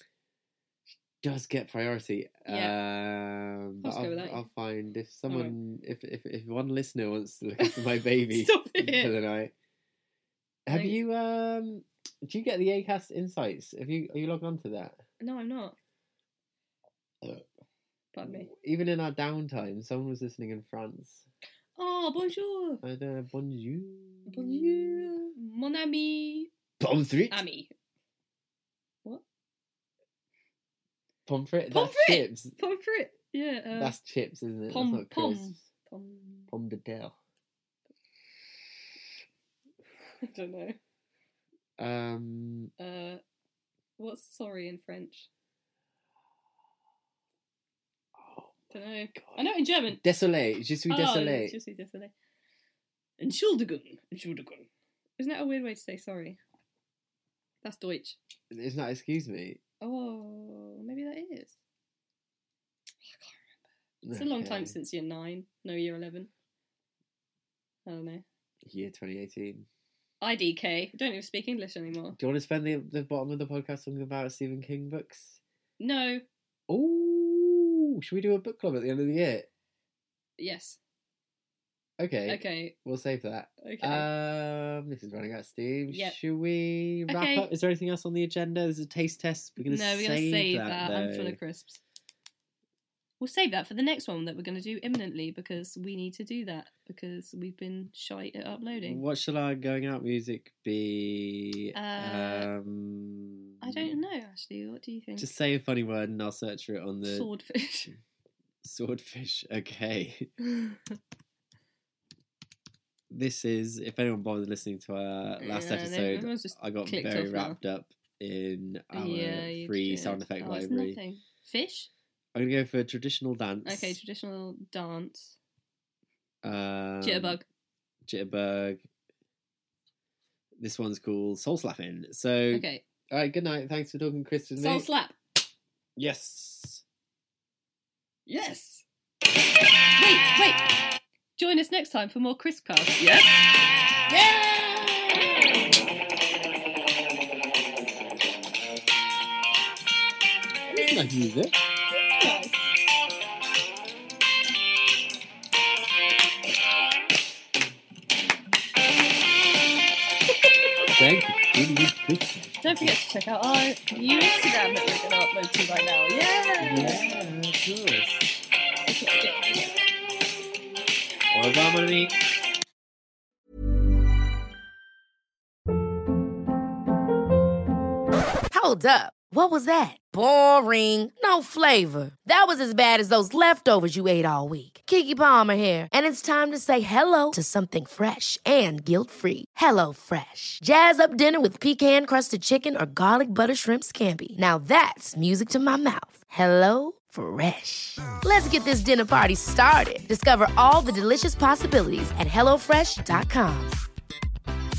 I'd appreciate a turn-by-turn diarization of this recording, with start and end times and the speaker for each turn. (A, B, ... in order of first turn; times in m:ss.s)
0:00.9-0:09.5 A
0:02.5-0:02.8 B
0:03.8-0:04.5 B
0:05.3-0:05.5 B
0:07.6-0:09.1 B
0:10.6-0:15.0 A
0:10.7-0:11.0 B
0:15.2-0:15.8 B
0:18.1-0:18.5 B
0:18.2-0:21.2 A
0:21.8-0:22.8 B
0:22.8-0:25.1 A
0:24.3-0:26.5 B
0:26.8-0:27.4 A
0:27.3-0:27.7 B
0:31.3-0:32.5 A
0:31.7-0:34.0 B
0:33.7-0:35.6 A
0:34.7-0:36.5 B
0:36.5-0:37.2 A
0:40.2-0:40.8 B
0:41.8-0:42.7 A
0:42.8-0:43.2 B
0:44.0-0:45.3 B
0:48.2-0:48.5 A
0:48.7-0:50.0 B
0:49.9-0:51.6 A
0:50.9-0:52.1 B
0:53.2-0:54.7 B
0:55.2-0:56.4 B
0:57.6-0:58.2 B
0:58.5-0:59.6 A
0:59.8-1:01.5 B
1:03.0-1:03.4 B
1:04.0-1:04.7 A
1:04.1-1:06.3 B
1:07.8-1:08.2 B
1:08.6-1:09.7 A
1:10.2-1:12.2 B
1:12.1-1:15.4 A
1:15.8-1:16.2 B
1:16.7-1:19.5 A
1:20.4-1:20.8 B
1:22.0-1:31.4 A
1:22.3-1:22.7 B
1:23.6-1:24.1 B
1:25.9-1:26.2 B
1:27.1-1:27.5 B
1:29.6-1:31.8 B
1:33.2-1:39.0 B
1:38.8-1:44.0 A
1:41.7-1:42.5 B
1:43.6-1:45.3 B
1:45.2-1:47.3 A
1:47.0-1:47.9 B
1:48.6-1:50.3 A
1:53.1-2:01.0 A
1:55.4-1:57.6 B
1:58.9-2:01.9 B
2:02.3-2:04.0 A
2:03.6-2:05.4 B
2:06.4-2:07.4 A
2:07.0-2:07.4 B
2:08.0-2:08.8 A
2:10.6-2:14.8 A
2:12.5-2:12.8 B
2:14.6-2:15.2 B
2:16.0-2:16.8 A
2:18.3-2:18.8 B
2:20.0-2:20.6 B
2:21.4-2:23.4 B
2:24.1-2:25.4 A
2:30.7-2:31.5 A
2:31.9-2:32.7 B
2:41.0-2:42.9 A
2:42.6-2:47.1 B
2:46.6-2:48.3 A
2:48.8-2:49.7 B
2:51.3-2:52.1 A
2:58.5-3:23.7 C